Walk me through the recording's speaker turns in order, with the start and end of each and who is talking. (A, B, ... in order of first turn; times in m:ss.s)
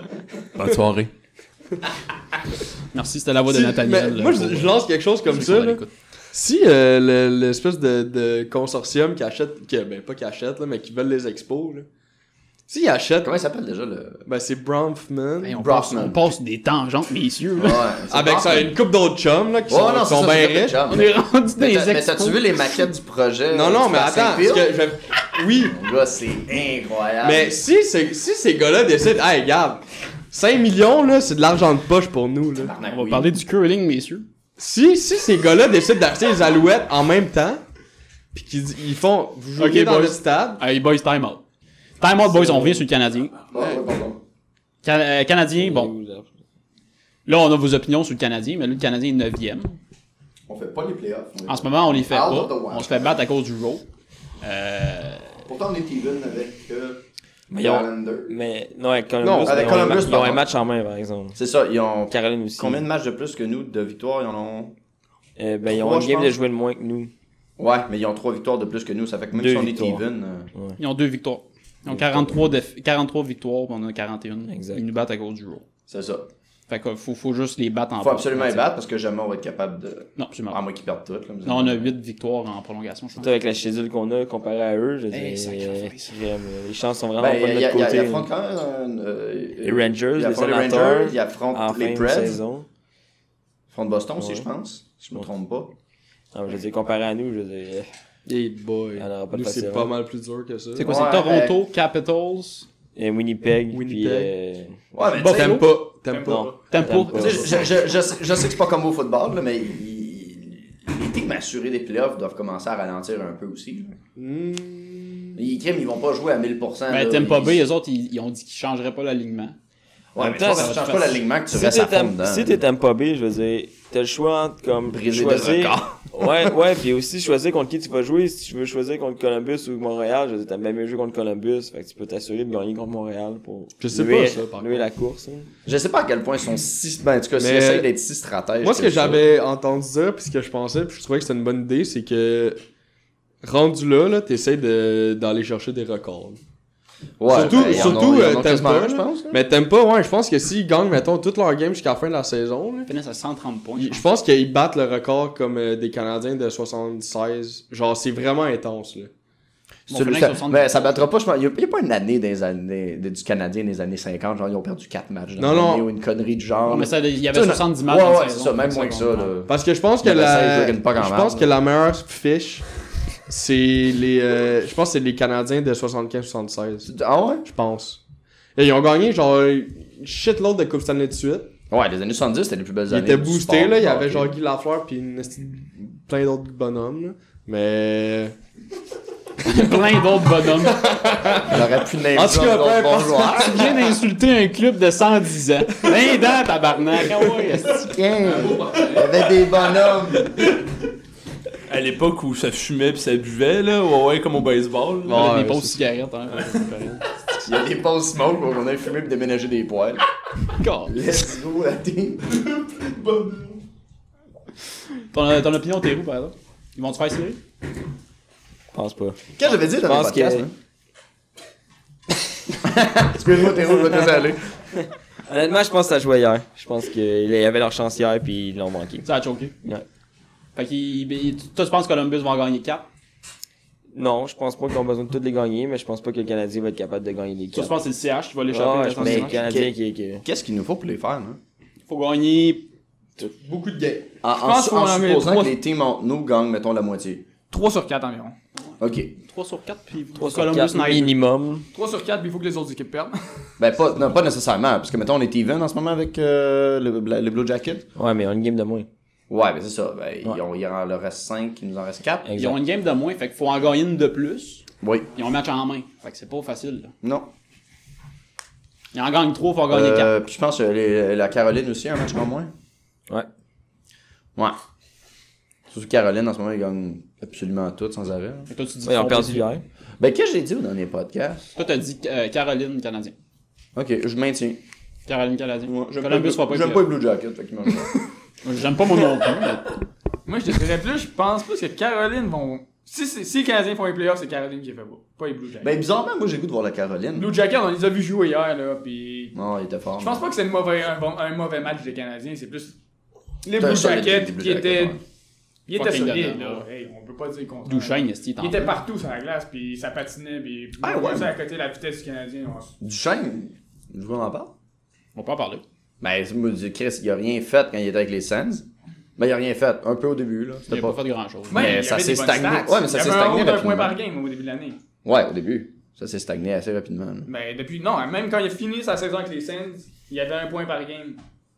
0:00.5-0:01.1 A
0:02.9-0:05.9 B
0:03.5-0:11.8 C
0:12.7-0:13.3 C
0:13.2-0:14.2 D
0:14.2-0:15.5 C
0:15.4-0:18.0 B
0:15.5-0:16.3 D
0:17.6-0:18.8 D
0:18.1-0:20.8 C
0:19.7-0:24.7 D
0:20.8-0:22.9 B
0:23.5-0:25.7 C
0:25.6-0:27.5 D
0:27.2-0:32.7 C
0:32.6-0:33.3 D
0:32.9-0:34.2 B
0:34.6-0:37.6 C
0:38.3-0:40.6 C
0:39.6-0:41.4 B
0:42.0-0:43.3 B
0:42.3-0:42.8 C
0:43.5-0:44.2 D
0:44.8-0:45.9 B
0:45.5-0:46.3 E
0:47.2-0:49.8 B
0:50.5-0:53.2 D
0:51.5-0:53.8 B
0:54.4-0:55.4 B
0:55.4-0:57.0 D
0:57.5-1:01.4 E
0:57.6-0:58.3 D
0:59.2-1:00.0 C
0:59.4-1:00.4 D
1:01.4-1:04.7 D
1:02.1-1:02.8 E
1:05.4-1:07.1 E
1:05.6-1:06.4 D
1:07.6-1:10.5 D
1:09.3-1:10.0 E
1:10.8-1:15.6 B
1:11.9-1:12.5 E
1:14.5-1:14.8 E
1:15.9-1:16.3 D
1:16.7-1:18.7 B
1:18.0-1:21.9 D
1:20.2-1:20.6 B
1:21.4-1:23.3 B
1:23.2-1:28.3 E
1:25.1-1:26.1 B
1:27.2-1:32.4 D
1:29.6-1:32.6 E
1:33.7-1:35.7 D
1:34.2-1:34.4 E
1:36.3-1:37.9 E
1:38.3-1:40.9 C
1:39.0-1:39.9 E
1:40.8-1:42.6 B
1:40.8-1:41.6 D
1:43.0-1:44.8 E
1:43.7-1:44.3 C
1:44.9-1:45.6 D
1:45.1-1:45.7 B
1:45.2-1:46.5 C
1:46.1-1:46.7 F
1:46.2-1:47.7 E
1:46.7-1:47.6 B
1:47.1-1:53.9 D
1:54.2-1:55.4 C
1:55.4-1:57.6 D
1:56.9-1:59.6 B
2:00.1-2:02.6 D
2:00.2-2:01.0 E
2:00.3-2:01.2 B
2:01.5-2:15.5 E
2:04.9-2:06.5 D
2:13.8-2:14.8 C
2:15.6-2:19.2 D
2:17.4-2:17.9 C
2:18.6-2:22.6 C
2:23.4-2:26.4 C
2:27.2-2:29.4 D
2:27.3-2:32.9 C
2:32.9-2:34.0 B
2:33.8-2:39.1 C
2:39.9-2:41.1 B
2:39.9-2:51.5 D
2:45.4-2:45.8 C
2:46.7-2:49.3 B
2:49.5-2:52.6 C
2:53.3-2:56.9 C
2:56.8-2:57.4 D
2:57.4-2:58.0 C
2:58.6-3:01.5 C
3:01.7-3:04.3 D
3:02.9-3:08.4 C
3:09.4-3:11.0 B
3:09.4-3:09.8 C
3:10.3-3:13.7 C
3:11.4-3:13.9 D
3:13.3-3:18.1 B
3:17.7-3:20.5 D
3:18.4-3:19.0 C
3:21.7-3:25.3 A
3:25.0-3:25.8 C
3:25.1-3:27.0 B
3:27.4-3:30.0 D
3:30.6-3:31.0 B
3:30.8-3:33.4 D
3:35.1-3:37.4 B
3:38.7-3:40.4 E
3:39.4-3:40.5 D
3:42.6-3:44.4 D
3:45.3-3:49.1 E
3:49.0-3:49.5 B
3:50.6-3:52.8 B
3:53.9-3:57.7 E
3:57.5-3:59.5 B
3:58.5-4:00.2 E
3:59.0-3:59.7 D
4:00.2-4:01.4 D
4:01.9-4:02.6 B
4:03.4-4:04.1 C
4:04.2-4:07.2 D
4:04.4-4:05.5 F
4:07.5-4:08.4 F
4:08.8-4:09.1 D
4:09.2-4:11.1 B
4:10.2-4:11.7 E
4:11.7-4:13.2 F
4:13.6-4:17.8 D
4:18.0-4:18.9 E
4:19.3-4:22.2 D
4:22.2-4:22.6 E
4:22.4-4:24.6 B
4:24.8-4:25.1 D
4:25.1-4:26.9 B
4:27.0-4:27.3 D
4:28.9-4:30.2 B
4:29.7-4:32.5 D
4:35.7-4:38.5 D
4:38.5-4:39.5 B
4:38.8-4:39.6 E
4:40.0-4:41.5 D
4:41.6-4:43.1 B
4:43.8-4:44.6 D
4:45.1-4:46.8 B
4:45.7-4:47.9 D
4:48.4-4:49.8 B
4:50.2-4:55.7 F
4:55.6-4:57.3 D
4:57.2-4:59.4 F
4:59.3-5:00.2 D
5:00.0-5:02.7 F
5:03.4-5:05.0 F
5:03.6-5:05.0 D
5:05.7-5:12.7 F
5:05.7-5:06.6 B
5:07.6-5:08.8 B
5:10.8-5:11.3 D
5:12.8-5:14.5 D
5:15.1-5:15.6 B
5:16.0-5:18.6 D
5:19.2-5:21.0 D
5:20.7-5:21.8 B
5:21.5-5:24.8 F
5:21.5-5:24.0 D
5:25.0-5:27.3 D
5:27.2-5:31.2 F